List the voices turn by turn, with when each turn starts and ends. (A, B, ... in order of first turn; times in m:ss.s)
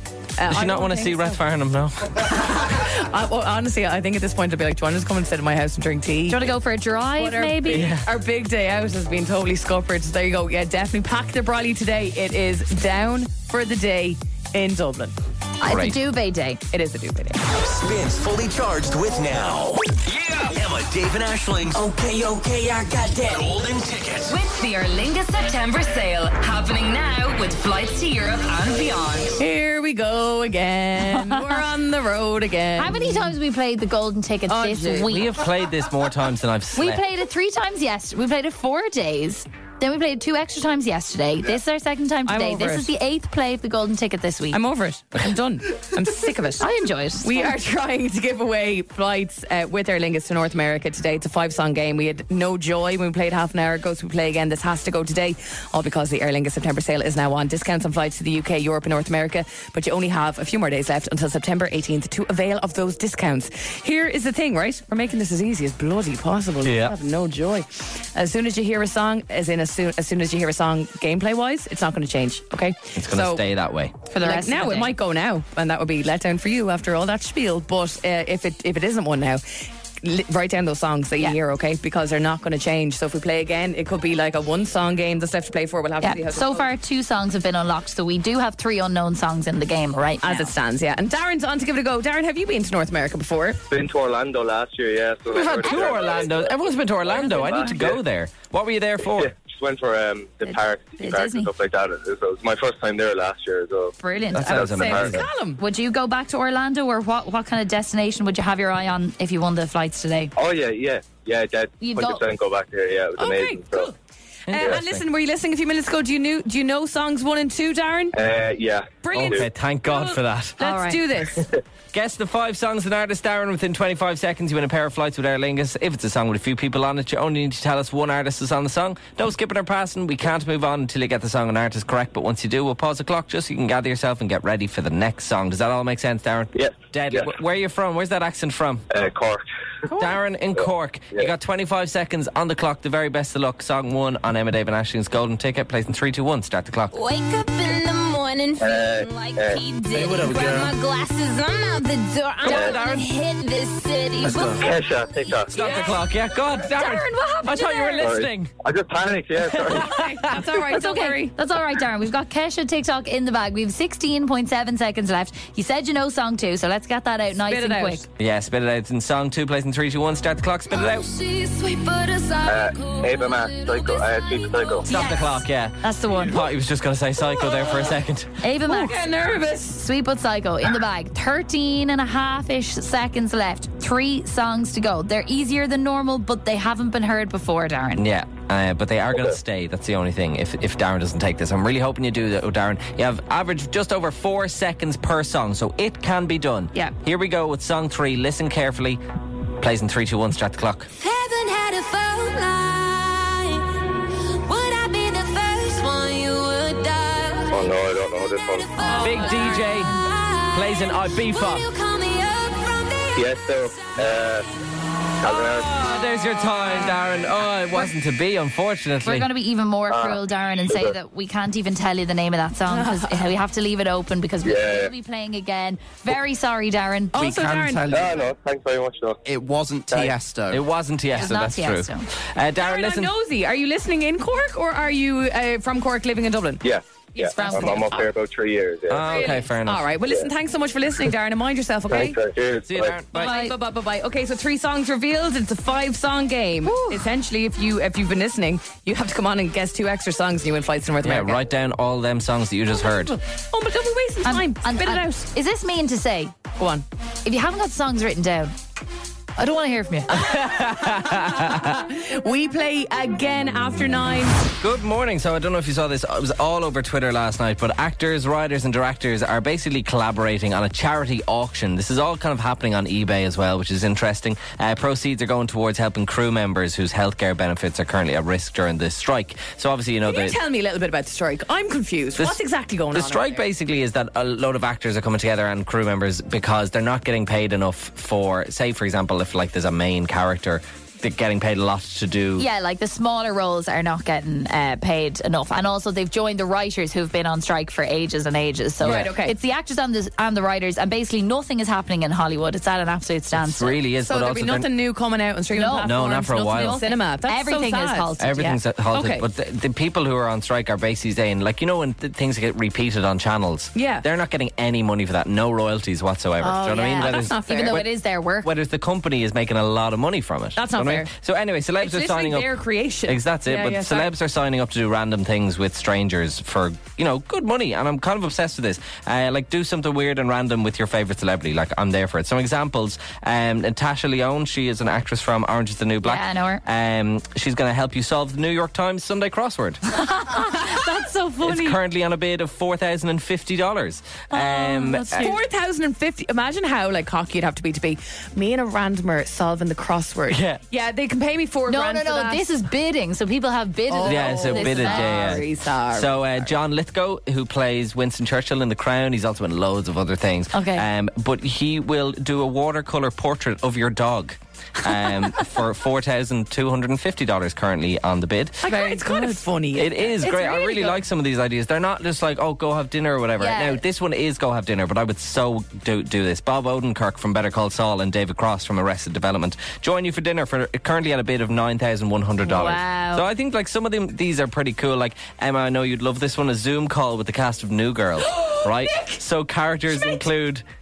0:00.4-0:01.4 A
0:00.4-0:02.3 B
0:02.2-0:06.5 A
0:06.3-0:07.9 C
0:07.2-0:15.1 A
0:07.7-0:08.1 B
0:15.6-0:16.6 C
0:15.7-0:16.0 B
0:16.7-0:17.4 A
0:17.5-0:24.4 D
0:21.9-0:22.5 E
0:24.3-0:29.4 E
0:29.4-0:33.4 A
0:31.3-0:31.6 C
0:32.8-0:35.3 C
0:34.5-0:35.2 A
0:35.1-0:37.0 B
0:36.7-0:44.6 C
0:42.2-0:42.9 A
0:44.5-0:46.7 A
0:46.6-0:47.6 C
0:47.2-1:13.4 A
1:06.6-1:06.9 B
1:13.0-1:13.9 B
1:14.1-1:15.0 C
1:14.2-1:26.7 A
1:26.0-1:30.5 C
1:30.2-1:33.6 A
1:33.7-1:38.0 F
1:35.3-1:39.3 B
1:35.7-1:36.2 C
1:39.1-1:45.2 F
1:40.4-1:41.5 C
1:44.0-1:44.9 C
1:44.3-1:45.2 B
1:44.7-1:45.6 A
1:45.6-1:50.3 C
1:50.4-1:53.9 F
1:51.8-1:52.2 C
1:53.2-1:53.9 A
1:54.5-1:55.0 B
1:54.5-1:58.2 A
1:58.1-1:59.4 F
1:59.0-2:01.5 A
1:59.1-2:00.6 B
2:00.6-2:01.0 C
2:01.9-2:18.9 B
2:16.5-2:17.3 F
2:18.9-2:19.4 F
2:19.9-2:27.0 B
2:26.9-2:34.5 G
2:28.6-2:29.6 F
2:29.9-2:30.7 B
2:32.4-2:32.7 F
2:32.4-2:33.0 B
2:32.5-2:33.0 C
2:34.2-2:34.7 B
2:34.2-2:35.5 F
2:35.5-2:38.5 B
2:35.5-2:35.9 C
2:36.6-2:38.1 C
2:38.0-2:39.9 F
2:39.5-2:40.4 B
2:39.8-2:41.3 A
2:40.7-2:48.0 C
2:47.5-2:48.1 A
2:48.2-2:51.1 B
2:50.7-2:55.3 G
2:52.4-2:54.9 F
2:54.9-2:58.3 B
2:54.9-2:56.4 C
2:58.4-2:59.0 C
2:58.7-2:59.8 A
2:59.7-3:08.0 C
3:08.0-3:19.0 B
3:19.6-3:20.9 B
3:21.0-3:23.8 G
3:24.4-3:27.6 G
3:27.5-3:28.7 F
3:28.6-3:34.0 G
3:28.8-3:30.0 C
3:29.0-3:29.9 B
3:30.5-3:31.7 B
3:33.1-3:34.4 F
3:35.2-3:35.8 F
3:35.2-3:39.3 B
3:39.0-3:47.2 C
3:39.9-3:40.9 F
3:42.7-3:43.3 A
3:44.4-3:44.9 F
3:47.1-3:48.0 A
3:47.1-3:48.3 H
3:47.9-3:49.2 F
3:49.2-3:50.6 H
3:49.9-3:50.2 F
3:50.5-3:53.1 B
3:51.2-3:52.1 C
3:52.6-3:56.6 A
3:56.6-3:59.2 F
3:57.1-3:58.1 A
3:57.3-3:57.9 C
3:58.9-3:59.9 B
3:59.0-4:02.2 A
4:01.9-4:03.0 F
4:02.6-4:03.3 B
4:03.1-4:11.4 A
4:03.1-4:03.5 C
4:06.6-4:07.0 C
4:11.0-4:13.2 B
4:12.8-4:15.2 A
4:14.2-4:16.4 C
4:16.6-4:16.8 A
4:17.2-4:18.5 C
4:19.4-4:20.2 C
4:20.1-4:21.9 B
4:20.8-4:24.4 A
4:24.6-4:40.4 B
4:40.0-4:43.4 A
4:42.9-4:52.4 B
4:52.4-5:03.8 C
4:58.8-4:59.3 A
5:03.3-5:04.7 B
5:04.0-5:09.2 A
5:05.5-5:08.5 C
5:05.8-5:06.8 B
5:08.2-5:17.9 B
5:13.7-5:14.0 A
5:16.5-5:17.8 A
5:16.6-5:18.5 C
5:18.4-5:22.5 B
5:20.6-5:21.1 A
5:21.8-5:24.1 A
5:23.0-5:39.8 B
5:36.0-5:36.6 C
5:39.9-5:41.8 C
5:41.4-5:45.4 B
5:44.3-5:45.3 C
5:45.1-5:52.5 A
5:50.3-5:50.6 B
5:51.7-5:55.4 C
5:53.9-5:56.5 A
5:54.0-6:08.6 B
6:00.5-6:00.9 C
6:08.6-6:10.2 A
6:08.7-6:09.4 C
6:09.8-6:30.6 B
6:10.2-6:11.0 C
6:13.4-6:13.8 C
6:22.4-6:23.2 C
6:28.2-6:29.2 A